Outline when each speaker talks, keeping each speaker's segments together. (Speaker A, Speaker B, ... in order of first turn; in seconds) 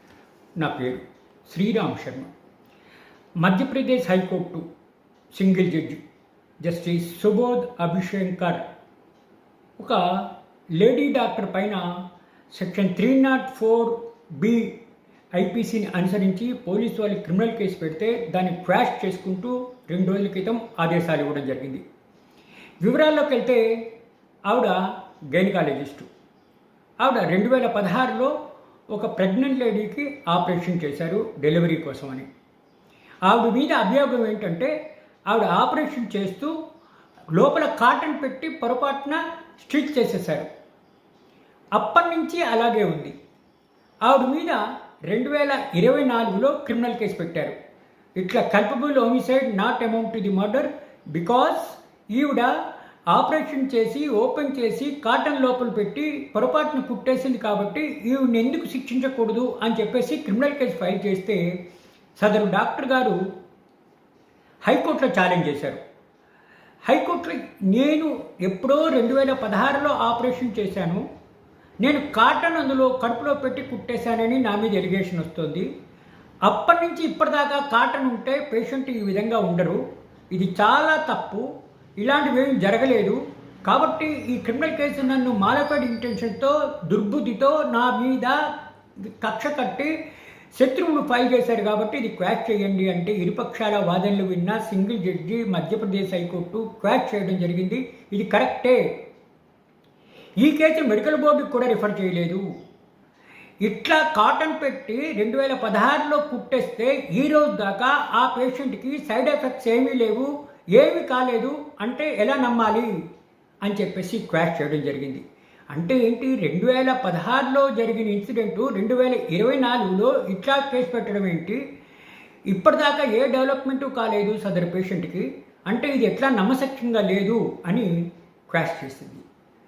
Speaker A: 0.6-2.3, 3.4-4.7, 5.3-6.0, 6.6-8.6, 9.8-11.9, 12.5-14.8, 15.4-21.8, 22.8-23.9, 24.5-26.1, 27.0-28.4, 28.9-32.3, 33.2-34.8, 35.3-36.5, 37.3-40.5, 41.8-43.1, 44.1-47.6, 48.2-52.5, 53.1-61.5, 62.2-63.2, 64.7-65.8, 66.9-71.0, 71.8-75.7, 76.5-79.8, 80.3-88.4, 89.0-89.9, 90.5-98.9, 100.4-102.5, 103.6-113.0, 113.6-121.6, 122.5-129.2